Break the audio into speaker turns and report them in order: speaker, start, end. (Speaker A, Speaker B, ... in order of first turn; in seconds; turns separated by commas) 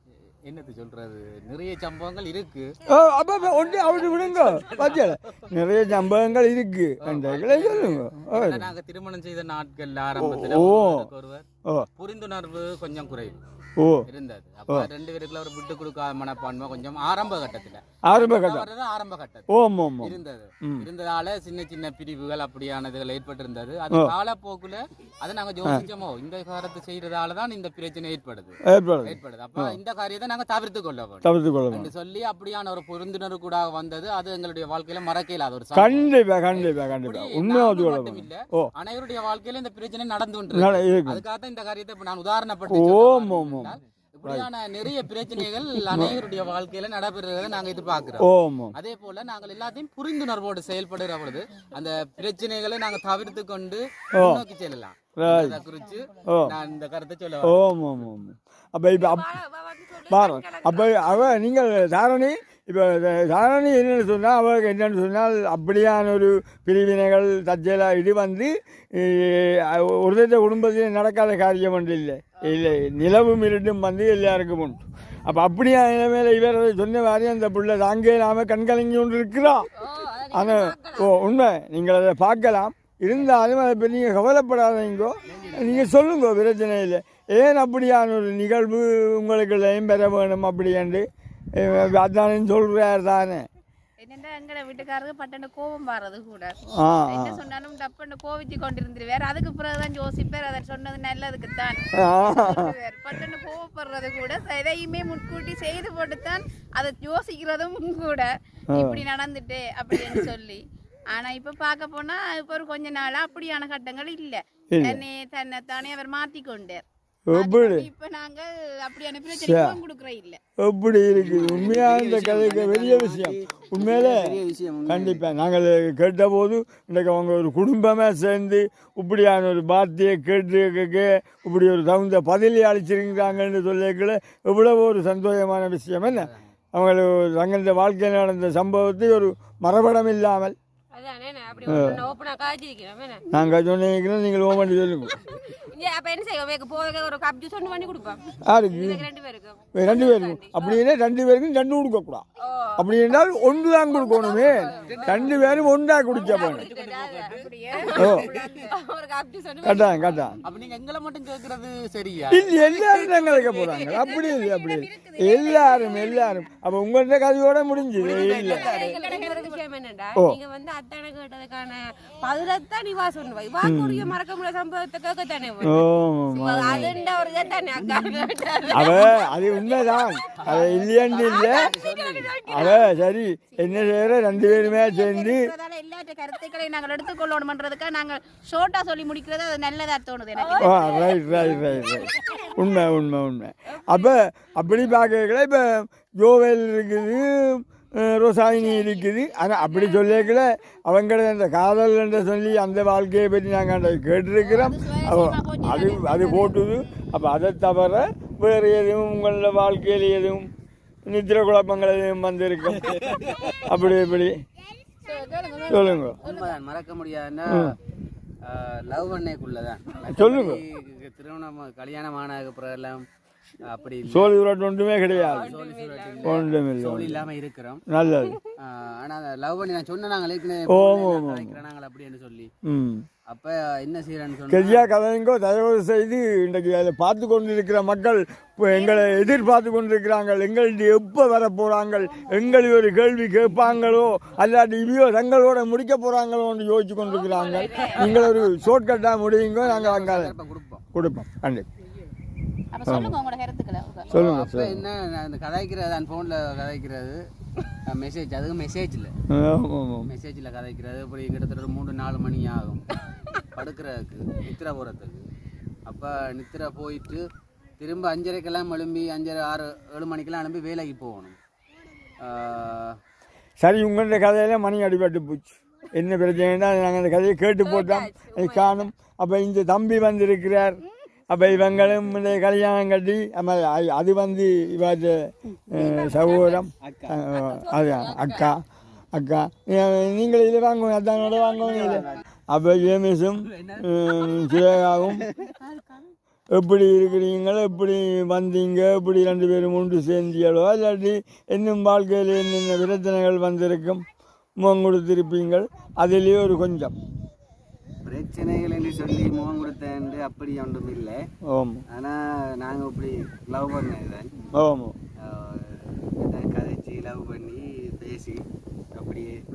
Speaker A: 0.4-2.7, Speaker B: 2.9-8.7, Speaker A: 3.7-5.1, Speaker A: 7.0-11.4, Speaker B: 10.2-11.1, Speaker A: 12.0-13.4, Speaker B: 13.8-14.0, Speaker A: 14.1-19.5, Speaker B: 18.1-18.7, Speaker B: 19.5-20.9, Speaker A: 20.0-57.6, Speaker B: 28.7-29.8, Speaker B: 31.2-31.9, Speaker B: 35.7-38.7, Speaker B: 40.5-41.2, Speaker B: 42.7-44.5, Speaker B: 45.8-46.2, Speaker B: 48.2-48.8, Speaker B: 54.1-54.4, Speaker B: 55.1-55.6, Speaker B: 56.2-56.5, Speaker B: 57.4-59.3, Speaker C: 59.0-61.3, Speaker B: 60.1-79.7, Speaker C: 79.8-81.1, Speaker B: 80.3-91.0, Speaker A: 85.3-85.9, Speaker B: 91.6-93.4, Speaker D: 94.0-96.5, Speaker B: 96.8-97.4, Speaker D: 97.1-110.6, Speaker B: 102.0-102.7, Speaker B: 108.7-109.0, Speaker D: 111.1-120.4, Speaker B: 114.7-115.0, Speaker B: 117.3-117.9, Speaker B: 119.3-119.8, Speaker B: 120.6-124.3, Speaker A: 121.1-125.2, Speaker B: 124.8-140.5, Speaker A: 136.0-136.5, Speaker C: 140.9-143.2, Speaker A: 141.5-142.0, Speaker B: 141.7-142.0, Speaker B: 143.3-145.2, Speaker C: 145.3-150.8, Speaker B: 148.5-149.1, Speaker B: 149.7-152.2, Speaker C: 152.4-152.9, Speaker B: 152.8-156.7, Speaker C: 153.9-155.4, Speaker A: 154.7-158.6, Speaker C: 156.1-160.3, Speaker D: 157.3-158.7, Speaker B: 157.9-158.3, Speaker B: 159.6-160.4, Speaker A: 160.4-163.9, Speaker B: 162.3-168.7, Speaker D: 164.0-166.4, Speaker A: 168.0-169.0, Speaker D: 168.0-169.6, Speaker C: 168.2-175.8, Speaker B: 173.6-174.2, Speaker B: 175.6-176.9, Speaker D: 176.3-178.3, Speaker C: 176.4-179.2, Speaker B: 178.7-181.7, Speaker D: 178.9-179.2, Speaker C: 179.8-180.5, Speaker A: 180.5-182.3, Speaker C: 181.3-182.8, Speaker B: 182.4-185.4, Speaker D: 183.6-190.8, Speaker C: 190.4-191.8, Speaker B: 190.6-210.5, Speaker D: 198.5-200.2, Speaker D: 204.4-206.9, Speaker B: 211.1-214.3, Speaker D: 215.0-216.6, Speaker B: 215.7-216.2, Speaker A: 216.2-217.7, Speaker A: 218.4-223.0, Speaker B: 220.1-220.6, Speaker A: 223.6-224.3, Speaker B: 224.0-225.5, Speaker A: 225.1-227.8, Speaker C: 225.3-226.4, Speaker B: 226.2-227.3, Speaker B: 227.9-228.4, Speaker A: 228.6-232.5, Speaker B: 230.7-231.6, Speaker B: 232.6-233.0, Speaker A: 233.3-234.9, Speaker B: 234.5-250.3, Speaker C: 238.8-239.1, Speaker C: 247.1-248.2, Speaker A: 247.9-248.3, Speaker A: 249.6-250.8, Speaker B: 250.9-251.7, Speaker D: 252.7-254.1, Speaker B: 252.8-253.2, Speaker A: 254.1-257.2, Speaker B: 254.1-254.8, Speaker A: 257.9-259.1, Speaker B: 259.3-260.1, Speaker A: 260.1-262.9, Speaker A: 263.5-265.2, Speaker A: 265.9-267.2, Speaker A: 267.8-271.4, Speaker A: 272.2-272.9, Speaker B: 273.6-280.8, Speaker C: 277.6-278.8, Speaker B: 281.3-288.6, Speaker A: 281.5-282.2, Speaker C: 285.7-286.6, Speaker A: 286.8-287.2, Speaker C: 287.3-288.6, Speaker B: 289.1-295.2, Speaker A: 291.6-292.2, Speaker A: 293.4-295.5, Speaker B: 296.5-304.0, Speaker B: 304.6-306.9, Speaker A: 308.0-311.2, Speaker B: 311.5-311.8, Speaker A: 311.9-314.3, Speaker B: 314.6-314.9, Speaker A: 315.2-318.4, Speaker A: 318.9-319.4